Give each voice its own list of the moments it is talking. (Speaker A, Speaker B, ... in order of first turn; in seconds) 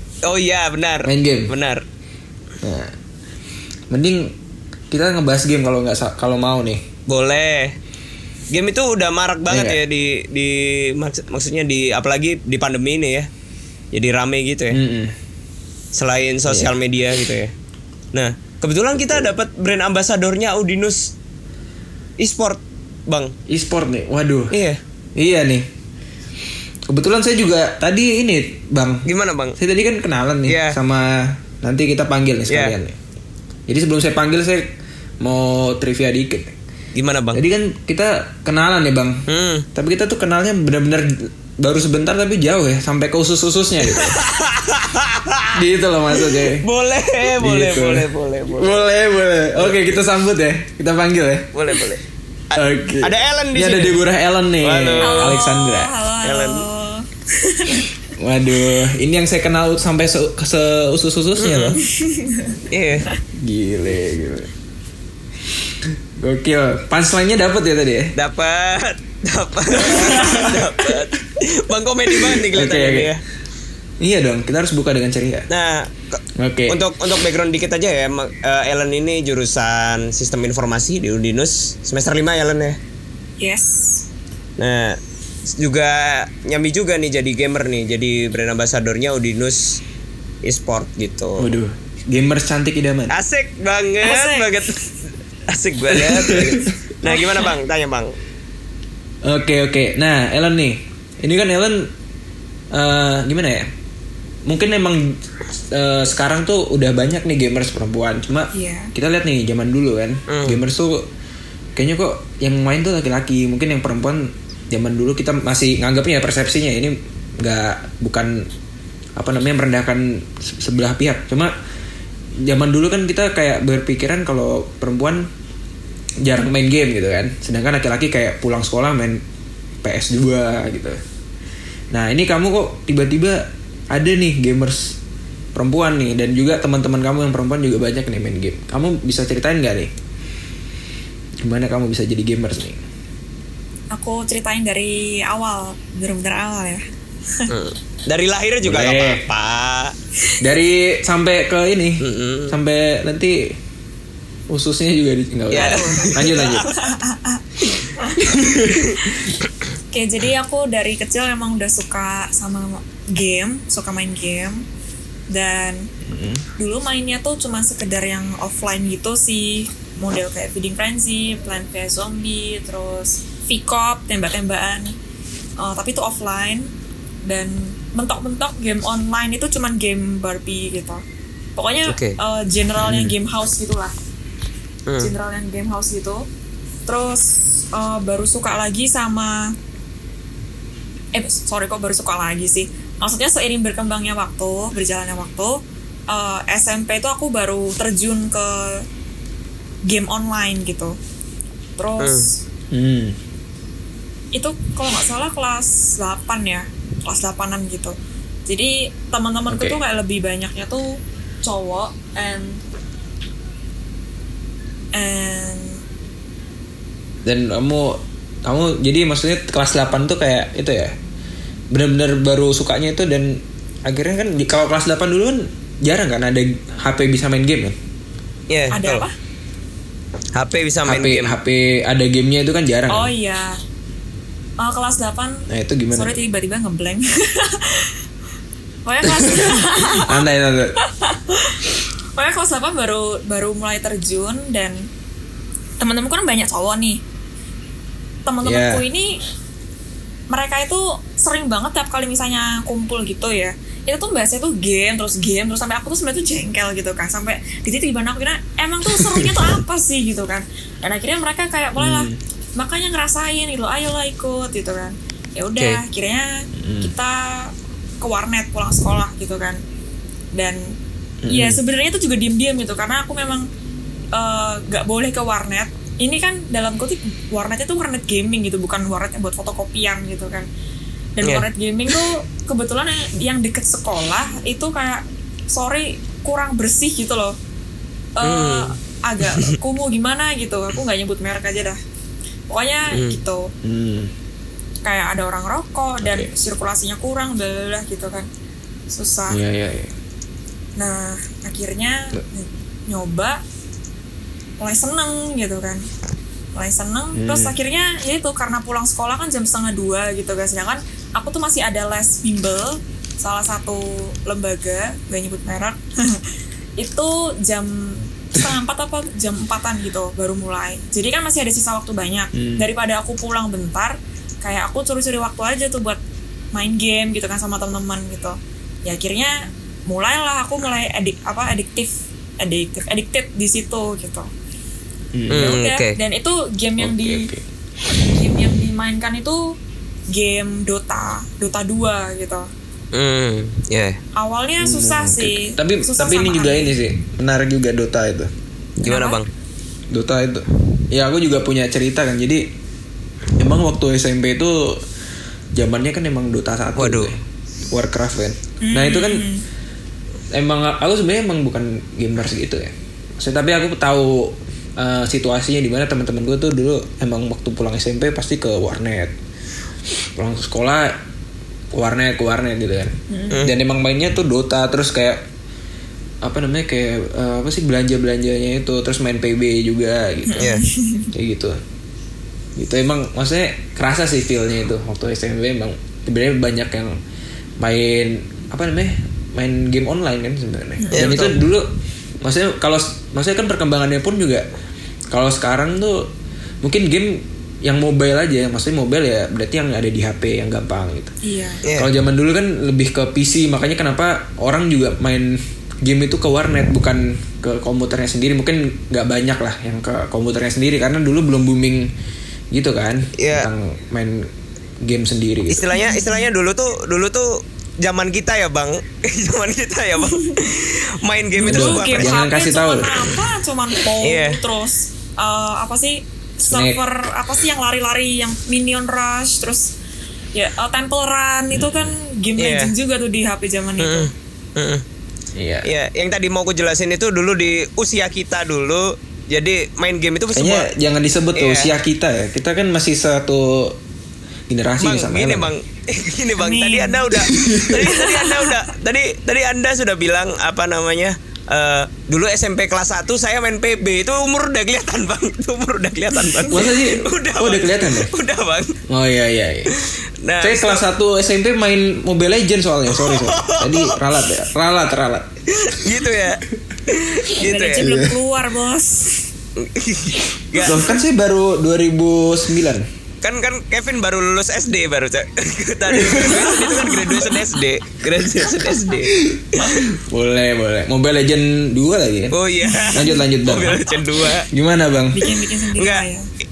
Speaker A: 0.2-1.8, 7.1-7.8, 8.5-13.3, 13.9-14.8, 15.9-17.5, 18.1-21.1, 22.2-23.3, 24.5-24.8, 29.0-29.6, 30.5-30.8, 32.5-32.7, 36.9-37.4, 39.3-39.6, 43.9-45.6, 46.2-48.8, 49.5-50.0, 51.5-54.0, 54.6-55.4, 56.2-56.6, 61.4-61.8, 62.7-63.0, 68.2-73.2, 75.5-82.8, 84.6-85.0, 85.5-89.8, 90.4-91.5, 93.1-94.8, 95.5-98.1, 110.3-110.6, 147.5-149.9, 152.0-152.5, 155.5-156.8, 181.9-182.2, 184.9-185.1, 202.0-202.3, 228.5-229.0, 230.3-231.3, 281.2-282.0, 288.2-288.7, 292.9-293.2, 335.3-336.0, 342.9-344.0, 348.8-349.3, 356.8-357.1, 373.3-373.6, 380.4-380.6, 390.9-391.4, 401.6-401.9, 413.1-413.5, 415.5-422.2, 424.0-424.4, 432.4-432.7, 433.8-434.8, 435.6-440.7, 441.3-441.7, 444.8-458.8, 459.7-460.8, 462.9-464.2, 465.5-467.9, 469.6-470.9, 473.2-479.9, 482.3-484.5, 485.8-486.1
Speaker B: 1.0-1.5, 2.6-2.9, 3.9-4.3, 4.9-6.9, 9.5-9.8, 14.7-15.1, 23.5-24.6, 25.1-25.6, 26.9-29.1, 29.6-33.0, 33.7-36.5, 37.3-44.2, 45.5-46.6, 47.4-51.5, 52.5-55.9, 58.2-61.8, 63.3-64.5, 65.8-68.1, 69.9-70.7, 72.1-73.1, 74.0-75.5, 76.3-76.8, 91.4-93.1, 95.9-96.7, 99.2-101.9, 102.7-103.7, 104.5-111.1, 111.8-118.5, 119.2-121.5, 122.4-125.3, 126.2-129.2, 129.8-131.0, 131.9-135.0, 135.5-139.9, 141.4-142.8, 148.6-149.2, 150.4-153.6, 154.5-156.7, 158.2-158.9, 166.1-166.4, 182.8-183.1, 202.7-203.2, 209.5-209.8, 217.2-220.9, 221.7-227.7, 230.8-233.1, 235.5-236.2, 239.2-240.7, 248.4-248.8, 259.0-259.3, 261.8-262.2, 266.6-266.9, 271.2-271.6, 293.6-294.1, 296.0-296.3, 299.3-299.9, 307.1-307.5, 322.3-322.6, 335.1-335.6, 336.8-337.4, 344.6-348.3, 349.9-352.5, 353.4-354.8, 355.5-357.2, 357.7-359.3, 360.3-369.1, 370.1-370.9, 371.7-375.2, 376.2-380.5, 381.1-381.6, 382.5-387.0, 387.6-391.7, 392.2-394.4, 395.1-396.1, 396.6-401.1, 401.7-411.9, 412.5-414.3, 414.8-415.7, 421.5-423.1, 426.4-426.8, 431.5-431.9, 435.3-435.7, 440.3-443.8, 444.5-445.5, 447.3-447.8, 456.5-458.1, 458.9-459.7, 460.4-465.4, 467.8-468.1, 470.6-472.9, 475.9-476.6, 479.2-482.4, 482.9-483.8, 484.5-485.2
Speaker C: 55.0-57.8, 61.9-62.6, 83.4-84.0, 94.0-94.6, 97.0-97.4, 108.5-108.9, 143.9-147.5, 155.5-157.4, 159.9-164.6, 165.3-165.9, 166.6-175.0, 175.6-176.7, 177.2-181.0, 181.6-183.9, 185.0-186.2, 186.8-189.5, 191.1-195.6, 196.1-198.8, 199.9-200.9, 201.8-202.4, 204.3-207.9, 208.5-212.6, 214.9-215.8, 228.7-229.1, 232.9-233.6, 234.6-237.9, 238.8-240.2, 240.8-244.9, 245.8-247.0, 248.2-249.2, 250.3-269.6, 270.3-270.8, 271.3-273.4, 274.1-280.5, 281.2-287.3, 288.2-291.8, 292.5-293.5, 294.8-298.3, 298.9-299.4, 300.8-303.4, 304.6-305.8, 306.5-316.2, 316.8-326.0, 326.5-329.4, 329.9-334.3, 335.3-337.3, 337.9-339.4, 340.1-342.5, 344.2-346.8, 348.8-349.2, 358.6-359.4, 373.1-373.4, 380.3-381.1, 390.8-391.1, 401.2-401.6, 415.7-416.2, 420.0-420.3, 421.3-429.7, 430.3-434.1, 446.4-447.1, 447.7-448.5, 467.4-469.2, 476.2-477.5, 482.6-483.2, 485.1-486.2